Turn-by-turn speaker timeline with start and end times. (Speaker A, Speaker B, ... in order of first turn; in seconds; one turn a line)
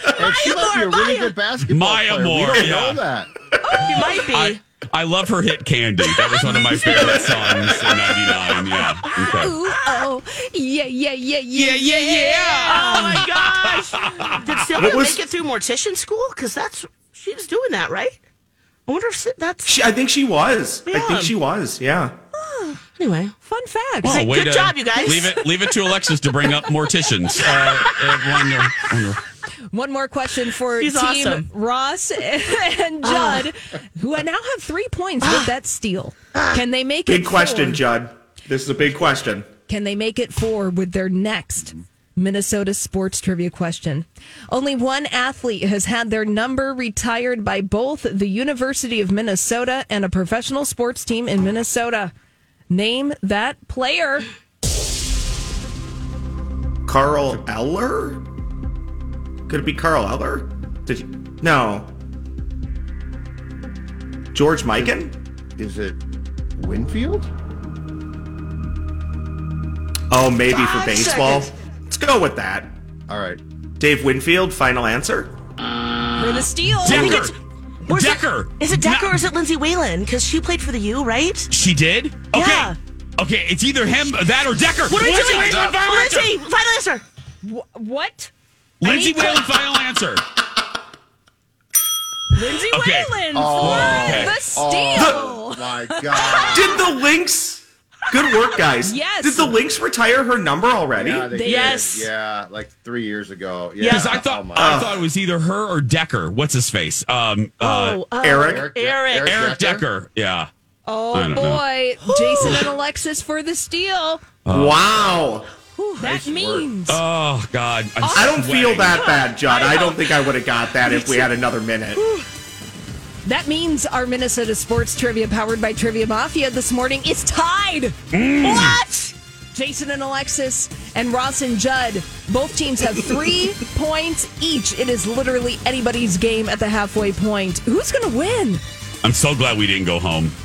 Speaker A: 0.1-1.4
Speaker B: 0.1-3.3
Speaker C: 1.6-3.0
Speaker D: 2.5-2.8
Speaker A: 3.7-4.6
Speaker C: 3.8-9.5
Speaker A: 6.1-7.3
Speaker E: 6.8-7.3
Speaker D: 7.0-7.9
Speaker A: 8.3-10.0
Speaker E: 9.2-13.2
Speaker C: 11.6-14.6
Speaker A: 12.2-18.2
Speaker D: 14.8-15.2
Speaker A: 18.9-19.8
Speaker D: 19.6-22.1
Speaker A: 20.9-21.4
Speaker E: 22.4-22.8
Speaker A: 23.0-23.3
Speaker E: 23.4-24.2
Speaker A: 24.0-25.4
Speaker C: 24.0-29.2
Speaker E: 25.1-25.4
Speaker A: 27.5-28.5
Speaker E: 29.7-37.8
Speaker A: 30.8-31.5
Speaker A: 33.0-33.5
Speaker A: 35.2-35.5
Speaker D: 37.1-39.5
Speaker E: 39.7-52.1
Speaker E: 52.7-54.3
Speaker D: 56.9-58.2
Speaker D: 59.5-61.9
Speaker D: 64.3-65.1
Speaker B: 65.6-66.0
Speaker B: 66.6-67.2
Speaker D: 70.1-72.8
Speaker B: 73.1-73.4
Speaker D: 73.8-75.3
Speaker E: 76.2-77.3
Speaker C: 76.8-77.3
Speaker A: 77.9-81.5
Speaker C: 77.9-79.2
Speaker C: 81.5-86.3
Speaker A: 82.3-82.8
Speaker A: 84.9-87.0
Speaker E: 85.2-85.9
Speaker E: 87.4-88.3
Speaker C: 88.8-90.2
Speaker E: 88.8-89.5
Speaker E: 92.3-96.8
Speaker C: 92.7-94.4
Speaker B: 93.3-96.8
Speaker D: 96.4-101.5
Speaker E: 98.8-99.6
Speaker B: 101.0-104.8
Speaker A: 101.4-102.1
Speaker A: 103.8-104.2
Speaker C: 103.9-108.0
Speaker D: 104.6-105.0
Speaker A: 107.6-109.3
Speaker D: 108.2-108.7
Speaker B: 108.4-109.9
Speaker C: 109.2-110.5
Speaker E: 110.9-114.2
Speaker C: 111.1-111.6
Speaker A: 112.0-112.6
Speaker C: 114.5-115.1
Speaker D: 114.5-115.5
Speaker A: 115.8-116.1
Speaker E: 116.0-117.0
Speaker B: 116.0-116.8
Speaker C: 116.9-119.0
Speaker E: 118.0-118.4
Speaker D: 118.1-122.0
Speaker E: 119.0-119.4
Speaker A: 119.0-120.2
Speaker A: 120.8-121.3
Speaker E: 123.2-128.0
Speaker C: 128.1-128.8
Speaker A: 128.4-129.1
Speaker E: 129.5-138.6
Speaker C: 139.0-140.3